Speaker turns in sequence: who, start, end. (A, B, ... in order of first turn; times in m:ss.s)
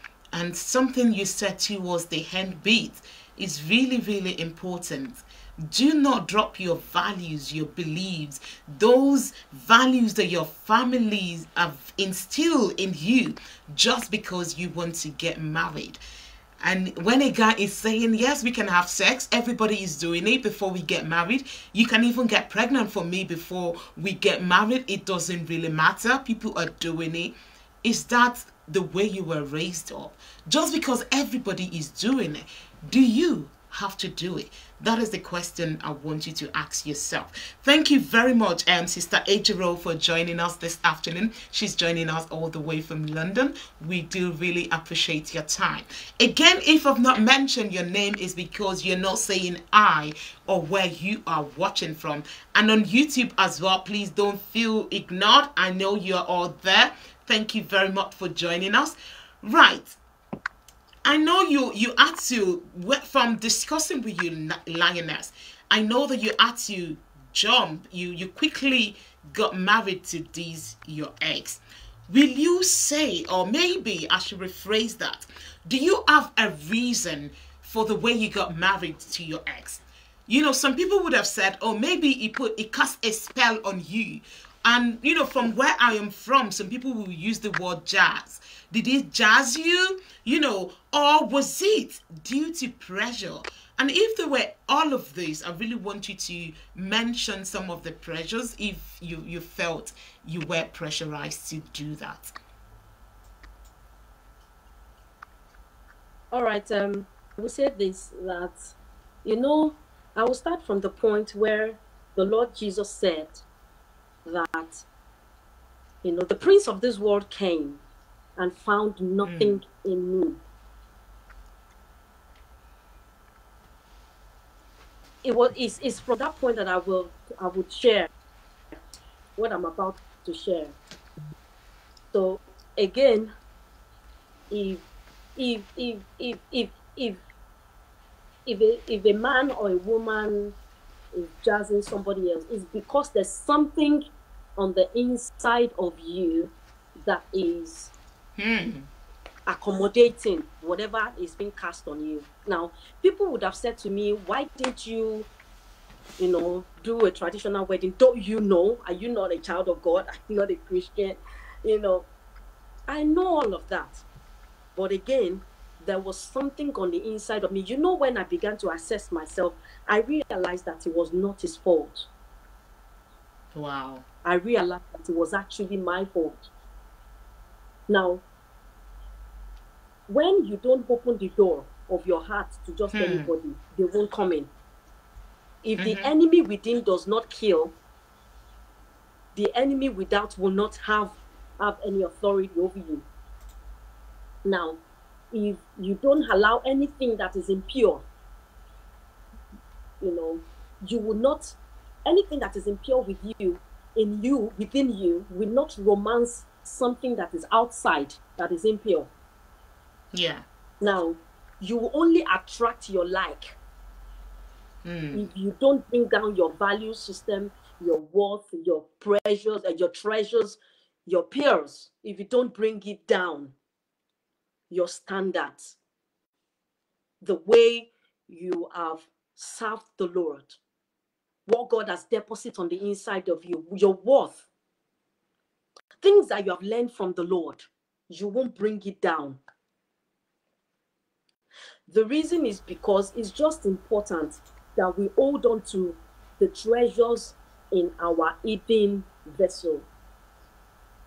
0:00.3-0:16.0 A
0:16.6-1:00.0 A
1:01.0-1:42.3 A
1:46.3-1:48.7 B
1:49.2-1:53.4 B
1:54.2-1:54.8 B
1:56.0-1:57.8 B
1:58.4-2:00.4 B
1:59.2-1:59.6 A
2:05.2-2:08.1 B
2:09.4-2:10.8 B
2:12.1-2:13.3 B
2:14.5-2:14.8 B
2:15.4-2:17.2 B
2:18.4-2:20.6 B
2:21.1-2:24.0 B
2:24.6-2:27.9 B
2:28.4-2:28.9 A
2:29.5-2:35.3 B
2:36.2-2:42.0 B
2:42.9-2:44.0 B
2:44.8-2:52.1 B
2:53.5-2:54.0 A
2:54.2-2:56.5 B
2:57.9-2:58.2 B
3:00.1-3:04.5 B
3:02.9-3:03.3 A
3:05.6-3:07.7 B
3:05.8-3:06.1 A
3:09.3-3:13.1 B
3:14.4-3:14.8 B
3:15.3-3:18.0 B
3:20.0-3:29.1 B
3:30.1-3:30.4 A
3:30.8-3:33.6 B
3:34.8-3:35.2 A
3:35.1-3:43.5 B
3:44.7-3:45.7 B
3:47.2-3:50.5 B
3:51.5-3:54.4 B
3:56.0-3:59.4 B
4:01.9-4:09.9 B